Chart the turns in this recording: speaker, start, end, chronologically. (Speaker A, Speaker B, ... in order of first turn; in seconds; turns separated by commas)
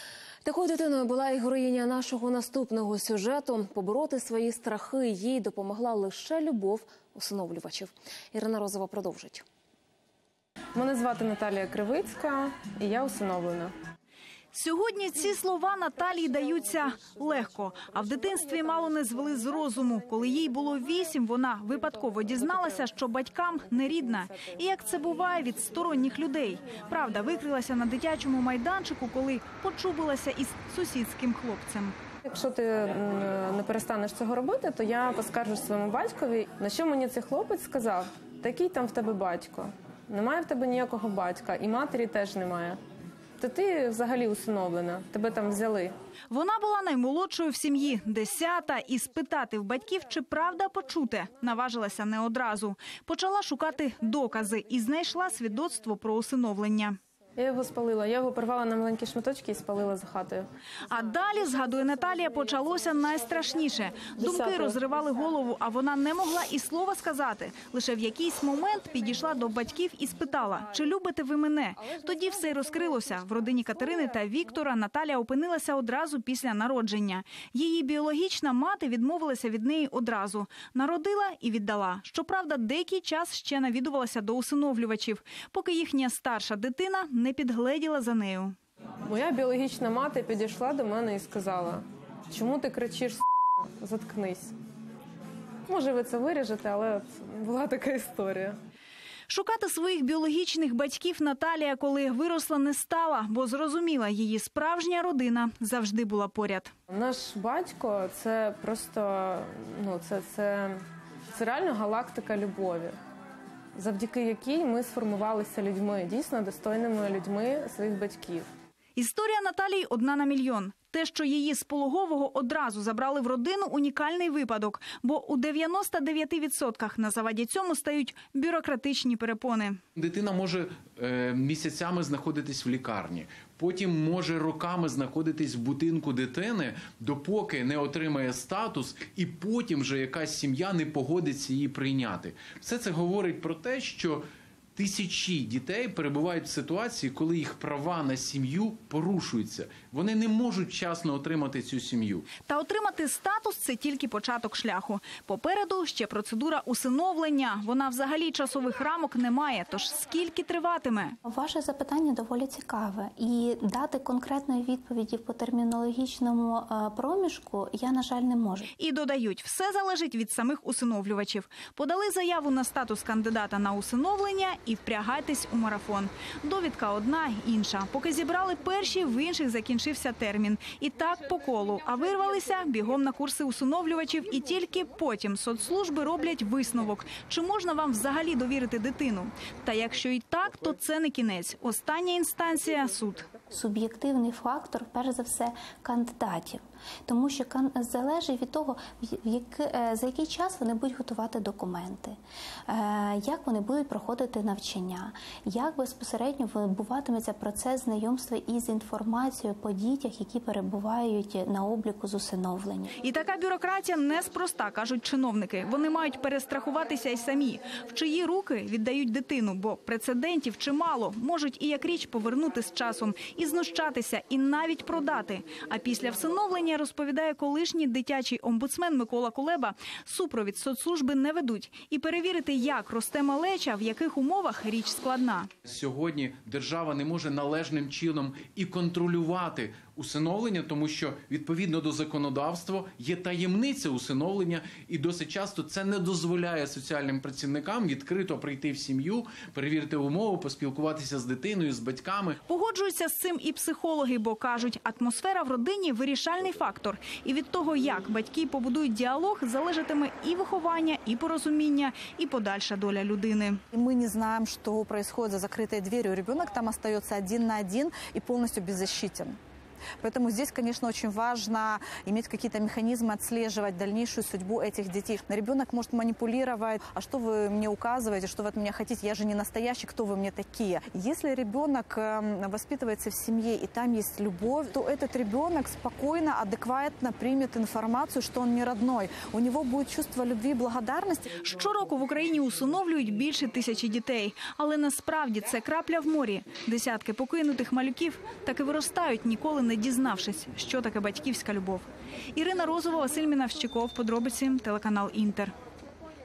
Speaker A: 0.4-9.4, Speaker B: 10.7-13.7, Speaker C: 14.5-31.9, Speaker B: 32.2-42.8, Speaker B: 43.4-45.9, Speaker C: 46.3-57.0, Speaker B: 57.4-60.5, Speaker C: 60.9-88.5, Speaker B: 64.2-64.8, Speaker B: 71.8-72.4, Speaker B: 89.1-94.5, Speaker B: 95.7-98.6, Speaker C: 99.3-106.7, Speaker B: 106.9-110.8, Speaker B: 111.3-113.0, Speaker B: 113.8-118.5, Speaker C: 119.0-129.8, Speaker D: 129.9-152.3, Speaker C: 152.4-161.2, Speaker E: 161.2-168.7, Speaker C: 168.8-193.3, Speaker E: 193.5-212.9, Speaker C: 213.0-235.5, Speaker D: 235.6-252.4, Speaker C: 252.5-263.6, Speaker F: 264.0-268.5, Speaker F: 273.5-273.8, Speaker F: 274.4-275.1, Speaker F: 277.6-278.9, Speaker F: 280.0-280.6, Speaker F: 282.4-284.6, Speaker F: 285.5-285.8, Speaker F: 289.4-291.2, Speaker C: 291.3-305.5